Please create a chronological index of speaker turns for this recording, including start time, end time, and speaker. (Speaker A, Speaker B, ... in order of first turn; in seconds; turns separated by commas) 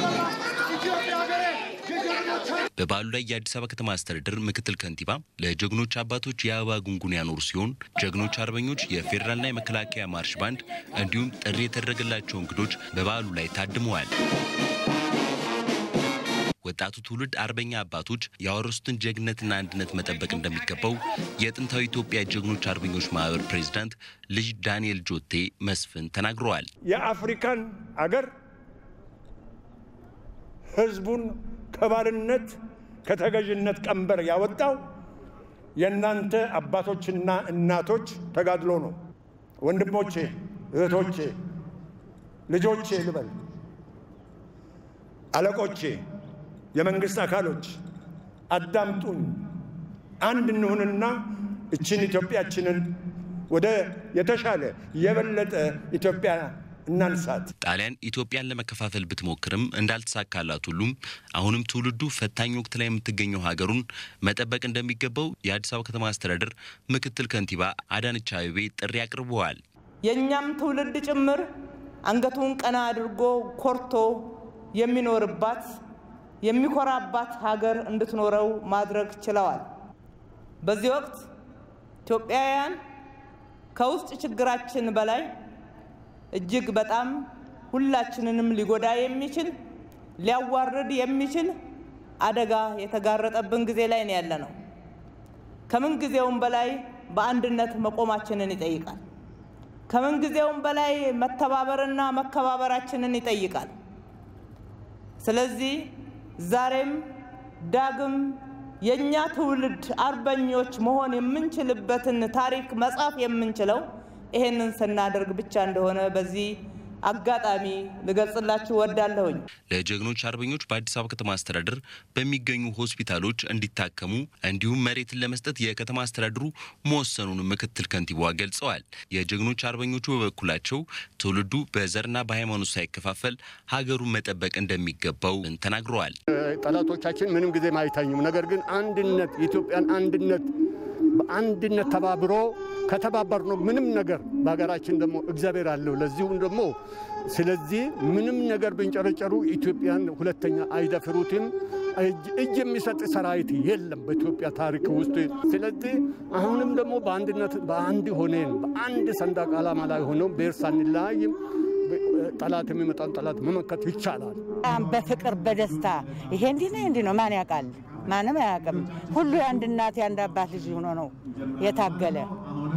Speaker A: 2.8-14.1, Speaker A: 16.6-26.7, Speaker B: 26.9-28.3, Speaker B: 30.8-34.8, Speaker B: 35.8-39.0, Speaker B: 39.6-41.3, Speaker B: 42.5-43.3, Speaker B: 45.3-46.0, Speaker B: 46.7-47.7, Speaker B: 48.5-49.4, Speaker B: 50.2-51.2, Speaker B: 51.7-53.0, Speaker B: 53.5-57.5, Speaker A: 57.6-69.6, Speaker C: 70.0-71.4, Speaker C: 72.0-75.8, Speaker C: 76.4-79.7, Speaker C: 80.6-81.2, Speaker C: 82.0-82.8, Speaker C: 83.7-85.3, Speaker C: 86.3-89.5, Speaker C: 90.2-91.5, Speaker C: 92.2-94.5, Speaker C: 95.7-99.0, Speaker C: 99.9-103.7, Speaker C: 105.2-107.0, Speaker C: 107.7-116.5, Speaker C: 117.0-119.4, Speaker A: 119.7-136.2, Speaker D: 136.3-140.5, Speaker D: 141.1-146.7, Speaker D: 147.3-164.4, Speaker E: 164.6-172.3